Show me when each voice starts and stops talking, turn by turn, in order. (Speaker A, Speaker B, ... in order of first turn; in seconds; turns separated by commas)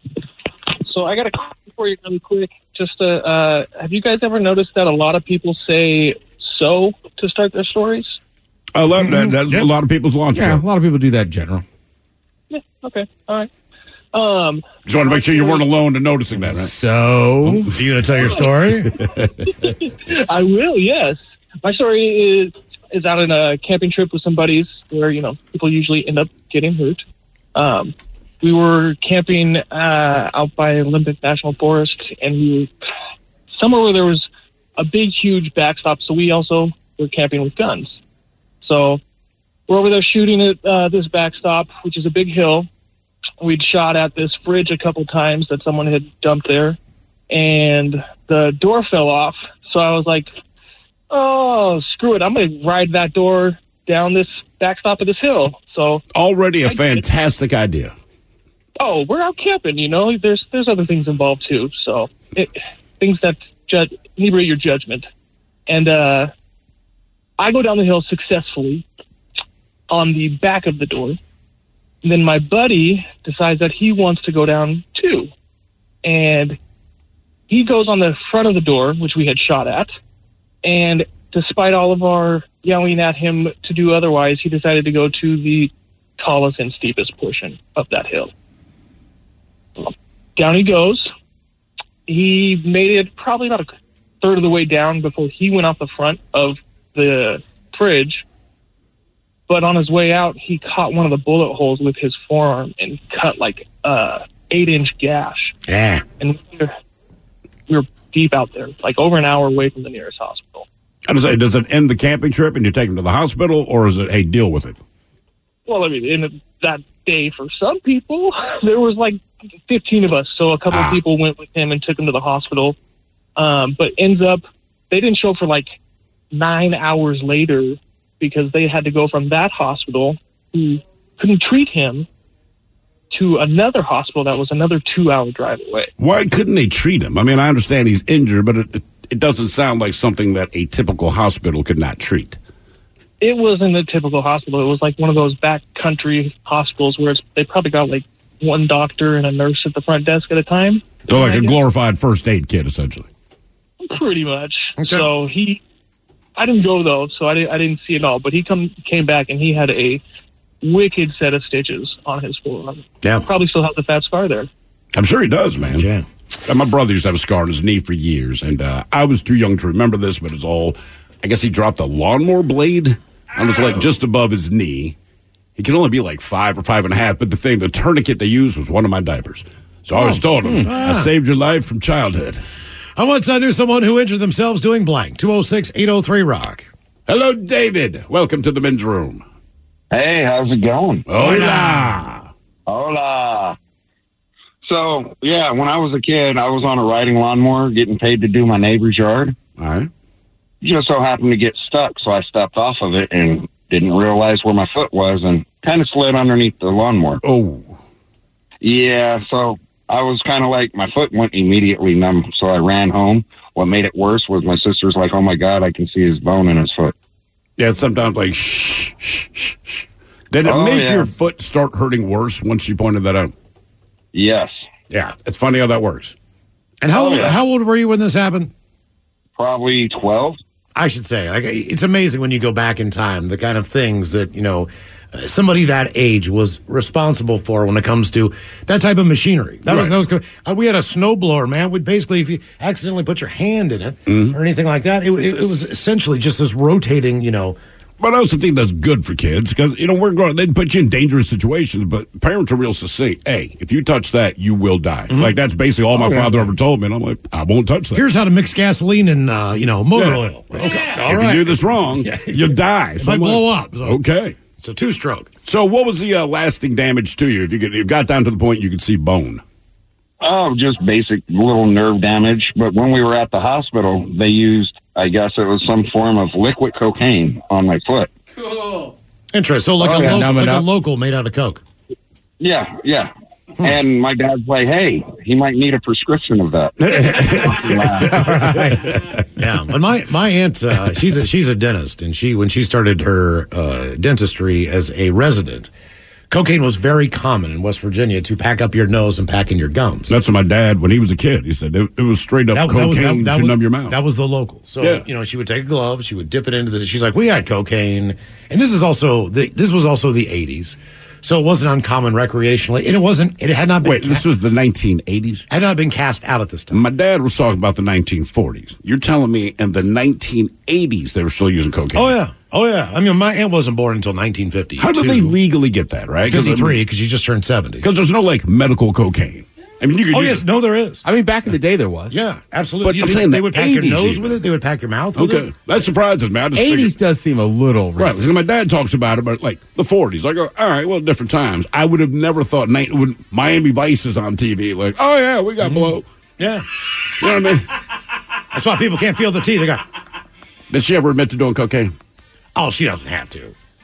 Speaker A: 0.8-8.2, Speaker B: 8.7-10.6, Speaker C: 9.0-9.7, Speaker D: 10.3-11.6, Speaker A: 12.5-13.5, Speaker A: 14.1-15.6, Speaker B: 14.8-16.7, Speaker D: 16.4-17.7, Speaker C: 17.7-18.9, Speaker B: 19.0-19.5, Speaker A: 20.1-27.0, Speaker A: 27.5-32.7, Speaker A: 33.5-38.0, Speaker A: 38.6-39.0, Speaker A: 39.7-42.7, Speaker A: 43.4-46.8, Speaker A: 47.3-50.3, Speaker A: 51.1-56.0, Speaker B: 56.1-57.9, Speaker A: 56.6-57.0, Speaker A: 58.8-65.1, Speaker A: 65.7-66.3, Speaker A: 67.4-68.8, Speaker A: 69.9-71.2, Speaker A: 72.0-75.3, Speaker A: 76.0-76.6, Speaker A: 77.5-79.9, Speaker A: 80.6-88.3, Speaker A: 89.8-91.1, Speaker A: 92.1-93.7, Speaker A: 94.2-98.2, Speaker A: 99.5-105.5, Speaker C: 105.7-106.0, Speaker A: 106.2-106.7, Speaker A: 107.7-110.7, Speaker B: 111.1-114.8, Speaker A: 115.7-122.7, Speaker B: 120.7-121.0, Speaker A: 123.4-125.7, Speaker A: 126.3-132.1, Speaker A: 133.1-135.9, Speaker B: 136.0-142.4, Speaker A: 143.2-151.6, Speaker B: 151.1-153.1, Speaker A: 153.8-155.6, Speaker C: 154.8-155.1, Speaker A: 156.3-160.0, Speaker A: 160.6-164.5, Speaker C: 163.0-163.3, Speaker B: 164.9-165.8, Speaker C: 165.6-166.1, Speaker B: 166.4-174.9, Speaker B: 175.6-182.4, Speaker C: 180.0-181.1, Speaker D: 180.4-180.7, Speaker C: 183.0-186.7, Speaker B: 187.1-189.2, Speaker E: 189.9-191.6, Speaker B: 191.1-192.3, Speaker E: 192.7-193.6, Speaker E: 194.6-199.3, Speaker B: 199.6-199.9, Speaker E: 200.6-207.2, Speaker B: 207.2-207.8, Speaker E: 208.6-216.9, Speaker B: 217.6-223.3, Speaker E: 220.4-221.1, Speaker E: 224.1-224.5, Speaker B: 224.9-226.1, Speaker C: 226.8-228.5, Speaker E: 226.9-227.4, Speaker E: 229.4-230.4, Speaker C: 230.7-247.6, Speaker B: 239.7-239.9, Speaker B: 244.1-244.3, Speaker B: 248.0-258.0, Speaker C: 255.9-256.5, Speaker C: 257.9-264.0, Speaker B: 259.9-264.4, Speaker C: 264.6-265.3, Speaker B: 265.4-269.4, Speaker E: 270.2-278.1, Speaker C: 279.3-281.6, Speaker E: 279.8-280.2, Speaker D: 279.9-280.6, Speaker E: 282.4-288.2, Speaker B: 286.8-289.2, Speaker D: 288.1-288.8, Speaker C: 289.4-295.7, Speaker C: 296.3-300.1, Speaker B: 300.1-303.9, Speaker C: 302.5-314.2, Speaker B: 313.8-315.4, Speaker C: 315.5-316.8, Speaker B: 316.7-322.1, Speaker C: 321.9-325.4, Speaker B: 324.8-326.8, Speaker C: 326.2-327.8, Speaker B: 327.8-330.4, Speaker C: 330.1-331.0, Speaker D: 331.0-332.2, Speaker C: 332.1-335.5, Speaker B: 332.8-334.4, Speaker B: 335.1-336.9, Speaker D: 336.5-338.2, Speaker B: 338.0-346.0, Speaker C: 345.6-346.6, Speaker B: 347.2-347.7, Speaker C: 348.5-349.8, Speaker B: 350.7-351.9, Speaker C: 352.6-353.5